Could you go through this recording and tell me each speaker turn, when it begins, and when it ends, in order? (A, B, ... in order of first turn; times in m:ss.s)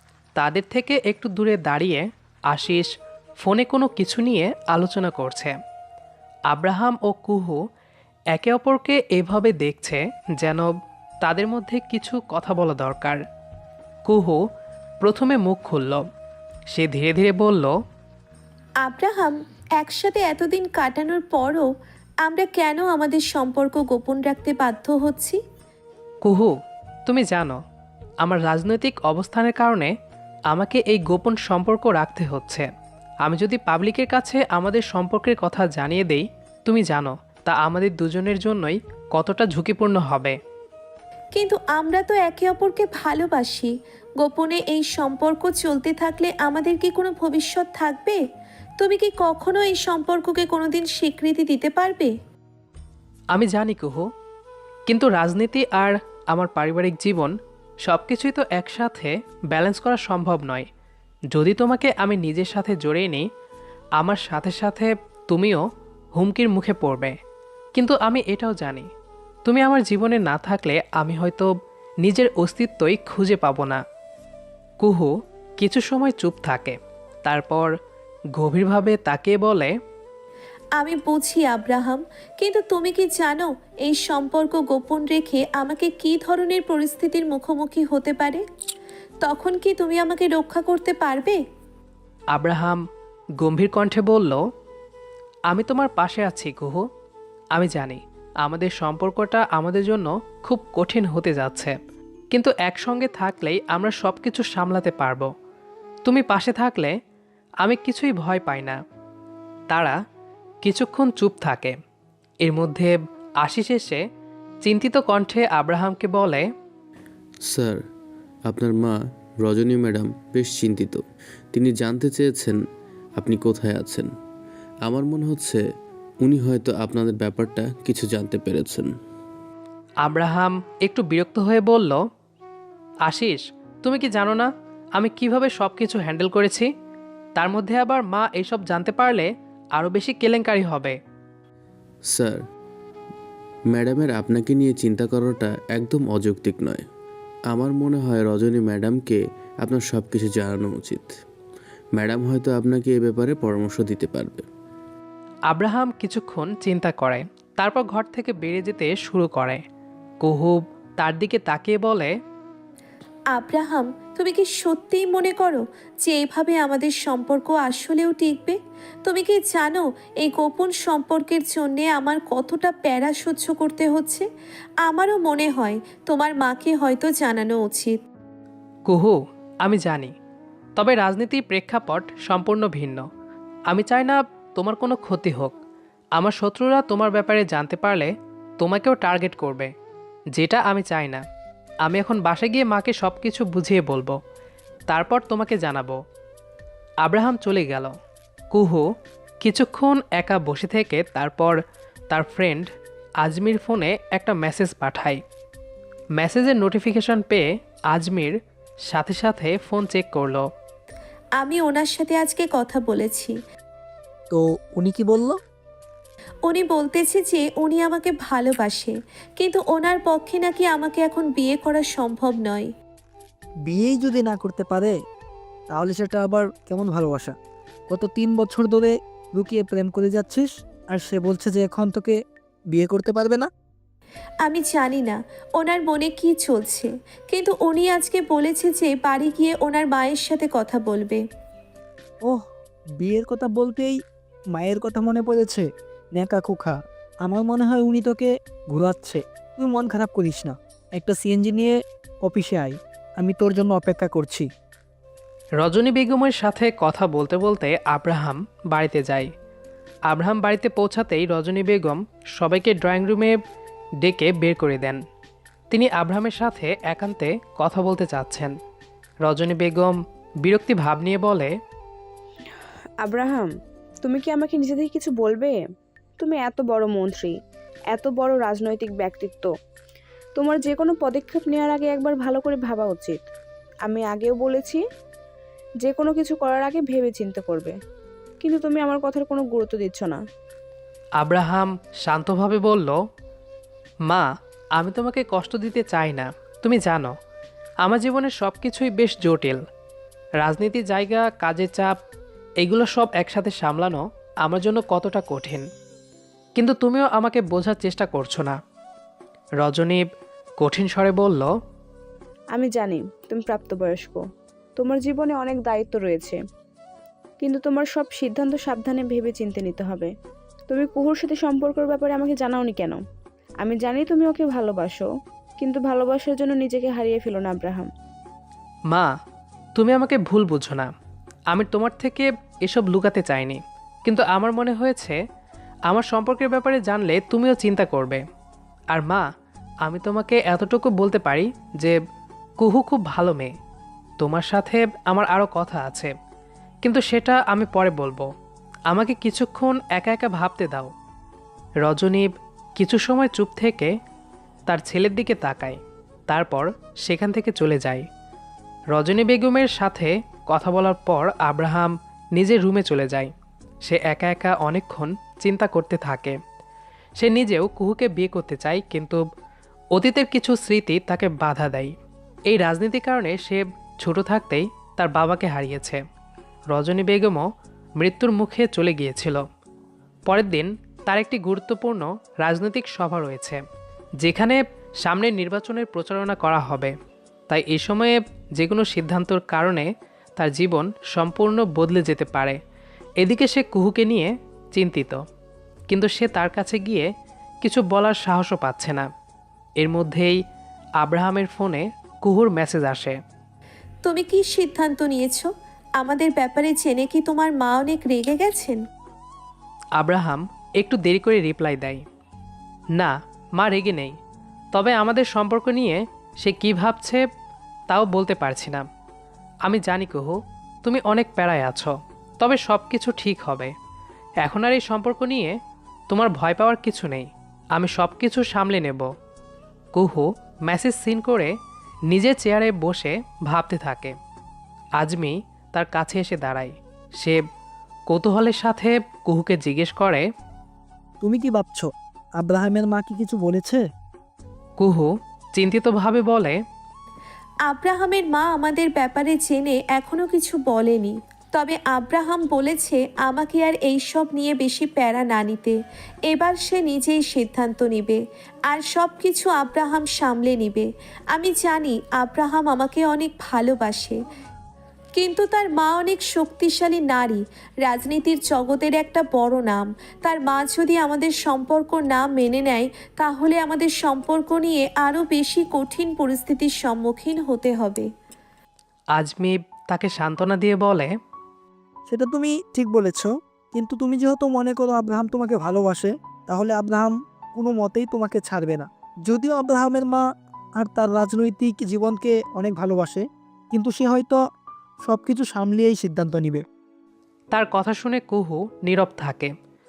0:00.4-0:02.9 A
0:03.4-0:05.6 A
0:06.5-0:07.6 A
0:08.3-0:10.7 A
0:11.2-0:13.2 A
0:14.1-0:14.4 A
0:15.0-0:16.0 A
0:16.7-0:17.7 A
0:18.8-0:21.7 B
0:22.2-0:25.4 B
0:26.2-0:26.5 A
0:27.1-0:27.6 A
0:28.2-0:29.9 A
0:30.5-0:32.7 A
0:33.2-0:40.4 A
0:41.4-0:48.2 B
0:48.8-0:52.1 B
0:53.3-0:54.1 A
0:54.9-1:00.6 A
1:01.3-1:03.3 A
1:04.0-1:05.6 A
1:06.2-1:07.2 A
1:07.8-1:08.9 A
1:09.4-1:11.5 A
1:12.0-1:13.8 A
1:14.8-1:17.7 A
1:18.4-1:19.7 A
1:20.8-1:28.4 B
1:29.2-1:31.4 B
1:32.3-1:32.8 A
1:33.4-1:34.4 A
1:35.5-1:36.8 A
1:37.6-1:41.8 A
1:42.3-1:45.3 A
1:46.1-1:46.9 A
1:47.6-1:48.8 A
1:49.7-1:50.0 A
1:50.6-1:51.8 A
1:52.4-1:54.0 A
1:54.6-1:56.5 A
1:57.5-1:57.8 C
1:58.5-2:01.0 C
2:01.5-2:02.6 C
2:03.2-2:04.1 C
2:04.9-2:05.6 C
2:06.2-2:08.9 C
2:10.0-2:12.0 A
2:13.0-2:16.7 A
2:17.4-2:21.0 A
2:22.1-2:22.4 C
2:23.7-2:26.8 C
2:27.5-2:31.1 C
2:32.0-2:34.4 C
2:35.5-2:39.6 A
2:40.2-2:42.1 A
2:43.4-2:54.2 B
2:54.9-2:58.0 B
2:58.9-3:00.1 A
3:00.8-3:03.0 A
3:03.7-3:05.6 A
3:06.2-3:09.7 A
3:10.4-3:11.2 A
3:11.8-3:14.2 A
3:14.9-3:16.0 A
3:17.0-3:17.9 A
3:18.5-3:18.8 A
3:19.4-3:21.6 A
3:22.1-3:22.7 A
3:23.2-3:25.2 A
3:26.2-3:28.4 A
3:28.9-3:30.4 A
3:31.4-3:33.4 B
3:34.3-3:35.4 D
3:36.5-3:42.7 B
3:43.7-3:44.9 D
3:45.7-3:47.3 D
3:47.9-3:52.2 D
3:52.7-3:53.5 D
3:54.5-4:01.2 B
4:03.0-4:04.0 D
4:04.5-4:14.5 D
4:15.6-4:19.3 A
4:20.1-4:23.4 A
4:24.0-4:25.0 A
4:25.7-4:28.5 A
4:29.3-4:31.5 A
4:33.0-4:33.5 E
4:34.0-4:35.6 E
4:36.2-4:37.3 E
4:37.9-4:39.5 E
4:40.4-4:43.3 E
4:43.9-4:44.8 E
4:45.8-4:47.7 E
4:48.4-4:50.2 E
4:51.2-4:53.0 A
4:54.8-4:57.1 A
4:57.8-4:59.6 A
5:00.4-5:01.9 A
5:02.6-5:05.7 A
5:06.6-5:08.6 A
5:09.6-5:10.1 A
5:10.6-5:11.5 A
5:12.6-5:14.2 E
5:14.8-5:16.4 E
5:17.4-5:20.1 E
5:20.7-5:23.0 E
5:23.6-5:25.0 E
5:25.6-5:27.9 E
5:29.8-5:30.9 A
5:31.5-5:35.2 A
5:35.9-5:38.2 A
5:38.9-5:39.3 A
5:39.8-5:42.0 A
5:42.6-5:43.5 A
5:44.2-5:46.1 A
5:46.8-5:48.3 A
5:48.9-5:50.9 A
5:51.8-5:53.9 A
5:54.7-5:58.1 A
5:58.9-6:03.3 A
6:03.8-6:06.4 A
6:07.2-6:09.3 A
6:09.9-6:11.9 A
6:12.5-6:16.0 A
6:16.7-6:17.5 A
6:18.0-6:19.4 A
6:20.3-6:23.6 A
6:24.2-6:26.9 A
6:27.5-6:32.6 A
6:33.2-6:35.2 A
6:35.9-6:37.1 A
6:37.6-6:39.1 A
6:39.8-6:40.4 A
6:41.0-6:43.2 A
6:44.0-6:48.8 B
6:50.0-6:52.0 A
6:53.0-6:54.2 A
6:54.7-6:57.2 A
6:57.9-6:58.9 A
6:59.7-7:03.7 A
7:04.4-7:05.6 A
7:06.1-7:09.1 A
7:09.9-7:11.5 A
7:12.1-7:14.2 A
7:15.0-7:17.4 A
7:18.1-7:20.3 A
7:21.2-7:23.8 D
7:24.8-7:26.6 A
7:27.7-7:35.8 B
7:36.3-7:44.2 B
7:45.2-7:58.1 B
7:59.2-8:01.1 A
8:02.1-8:10.2 D
8:10.8-8:14.4 D
8:15.0-8:16.6 D
8:17.5-8:19.5 A